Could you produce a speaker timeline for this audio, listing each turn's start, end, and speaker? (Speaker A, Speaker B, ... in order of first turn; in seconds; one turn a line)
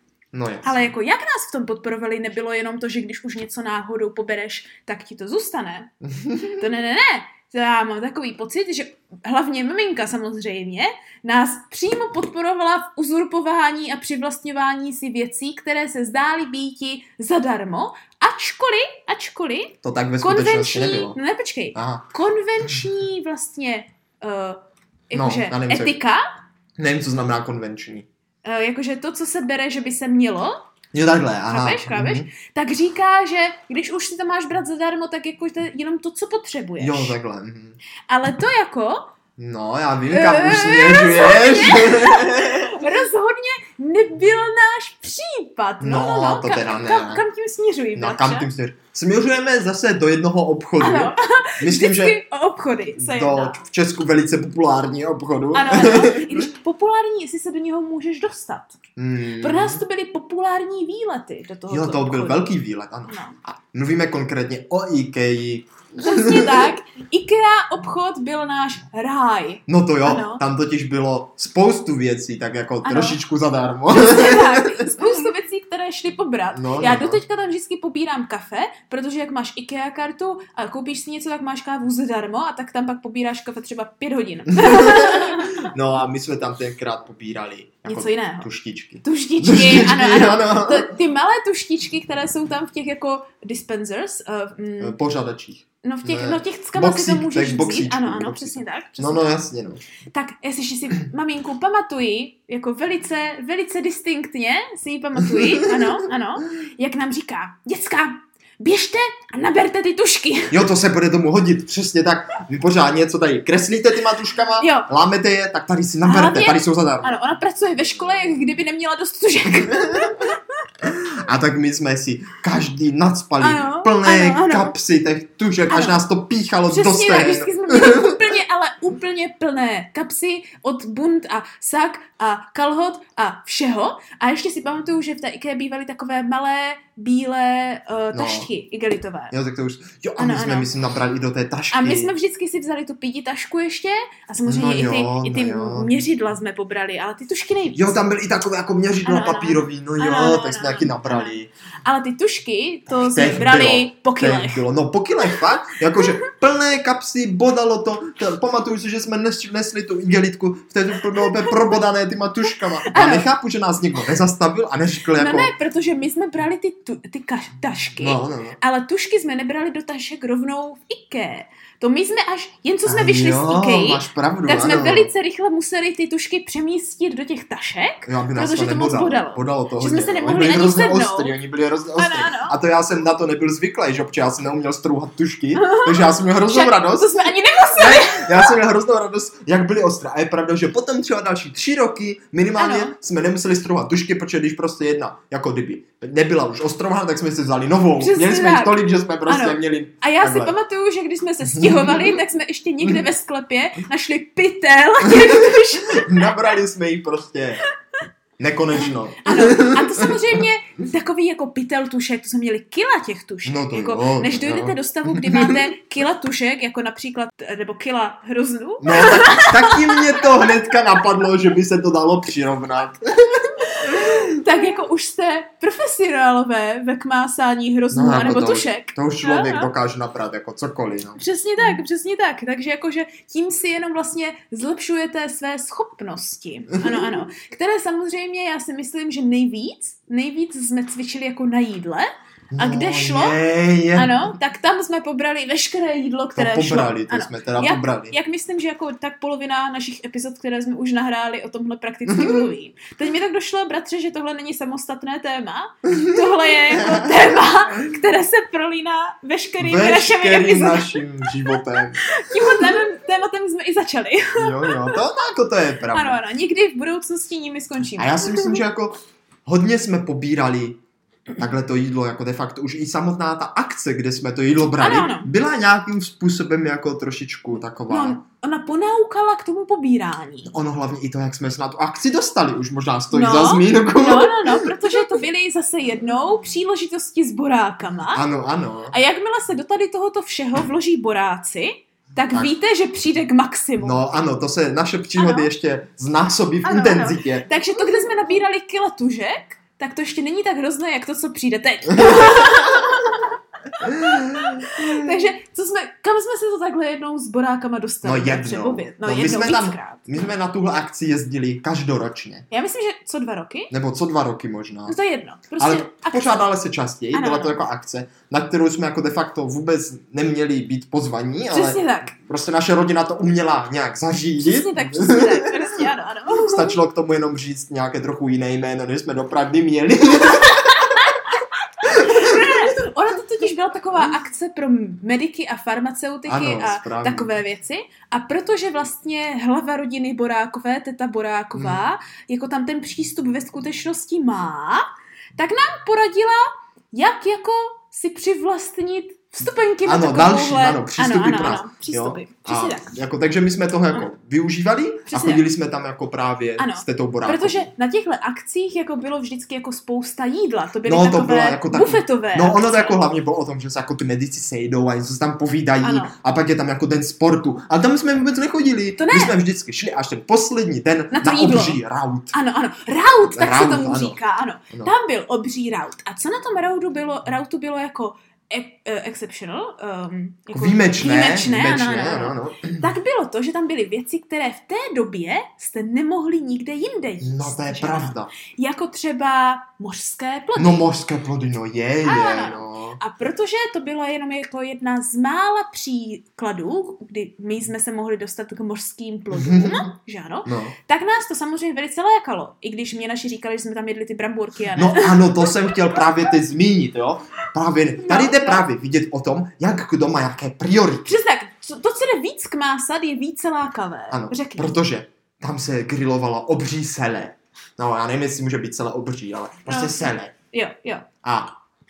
Speaker A: 0.3-0.9
Speaker B: 0.6-5.9
Speaker A: 6.0-6.6
Speaker B: 6.5-26.3
Speaker A: 19.8-21.2
Speaker A: 21.7-22.1
Speaker A: 25.1-26.0
Speaker A: 26.8-28.1
Speaker B: 28.4-30.6
Speaker A: 30.9-32.3
Speaker B: 31.5-37.2
Speaker A: 36.8-37.8
Speaker B: 38.1-39.1
Speaker A: 39.4-42.8
Speaker B: 40.1-48.5
Speaker A: 45.8-47.2
Speaker A: 48.0-52.2
Speaker B: 50.8-53.6
Speaker A: 53.0-56.5
Speaker B: 55.5-58.8
Speaker A: 59.0-59.8
Speaker B: 59.4-62.5
Speaker A: 61.7-66.7
Speaker B: 63.1-63.4
Speaker B: 66.0-70.4
Speaker A: 69.7-75.0
Speaker B: 72.8-73.2
Speaker B: 73.9-85.7
Speaker A: 76.5-77.2
Speaker A: 84.5-90.9
Speaker B: 87.8-88.5
Speaker B: 89.0-95.0
Speaker A: 94.8-99.8
Speaker B: 95.8-99.3
Speaker B: 100.1-110.6
Speaker A: 110.5-117.2
Speaker B: 114.6-114.9
Speaker B: 116.0-120.4
Speaker A: 119.8-120.2
Speaker A: 120.8-128.2
Speaker B: 123.4-124.8
Speaker B: 125.7-126.0
Speaker B: 126.7-139.3
Speaker A: 138.1-138.5
Speaker A: 139.3-142.1
Speaker B: 140.2-140.7
Speaker B: 141.7-148.0
Speaker A: 144.5-145.9
Speaker A: 147.8-151.5
Speaker B: 149.1-154.6
Speaker A: 152.9-165.5
Speaker B: 161.2-161.6
Speaker B: 162.8-163.3
Speaker B: 165.1-181.4
Speaker A: 168.0-168.6
Speaker A: 172.8-175.1
Speaker A: 178.1-200.6
Speaker B: 182.0-182.6
Speaker B: 185.6-188.6
Speaker B: 192.6-193.0
Speaker B: 198.0-206.5
Speaker A: 201.4-202.2
Speaker A: 205.1-207.6
Speaker A: 208.4-210.4
Speaker B: 208.7-220.5
Speaker A: 213.4-215.7
Speaker A: 218.8-224.4
Speaker B: 223.8-229.7
Speaker A: 227.9-231.2
Speaker B: 231.2-243.4
Speaker A: 236.7-237.2
Speaker A: 242.5-244.3
Speaker B: 243.9-265.0
Speaker A: 246.4-248.2
Speaker A: 252.1-252.4
Speaker A: 255.8-257.9
Speaker A: 259.6-262.8
Speaker A: 264.4-266.2
Speaker B: 265.9-268.6
Speaker A: 268.0-270.8
Speaker A: 271.4-278.2
Speaker B: 274.8-275.3
Speaker B: 277.9-280.5
Speaker A: 280.4-285.1
Speaker B: 283.1-288.2
Speaker A: 288.1-289.0
Speaker B: 288.9-294.0
Speaker A: 293.8-297.5
Speaker B: 295.2-295.5
Speaker B: 296.6-310.2
Speaker A: 301.9-302.9
Speaker A: 303.8-305.2
Speaker A: 308.0-312.5
Speaker B: 312.5-313.7
Speaker A: 313.7-315.0
Speaker B: 314.9-316.4
Speaker A: 315.6-331.1
Speaker B: 317.1-317.6
Speaker B: 321.5-322.1
Speaker B: 324.4-326.8
Speaker B: 331.8-344.9
Speaker A: 331.8-332.7
Speaker A: 336.3-337.3
Speaker A: 341.6-341.8
Speaker B: 345.4-353.0
Speaker A: 349.8-357.7
Speaker B: 355.1-355.5
Speaker B: 356.6-363.0
Speaker A: 360.9-372.4
Speaker B: 365.8-366.1
Speaker B: 369.0-369.4
Speaker B: 371.1-371.8
Speaker B: 372.3-390.9
Speaker A: 373.2-374.2
Speaker A: 380.5-382.9
Speaker A: 387.2-388.3
Speaker A: 390.6-393.0
Speaker B: 392.0-406.1
Speaker A: 399.3-399.9
Speaker A: 400.4-400.8
Speaker A: 404.7-411.2
Speaker B: 408.0-408.6
Speaker B: 411.1-414.8
Speaker A: 414.1-420.3
Speaker B: 419.7-421.1
Speaker A: 421.2-421.6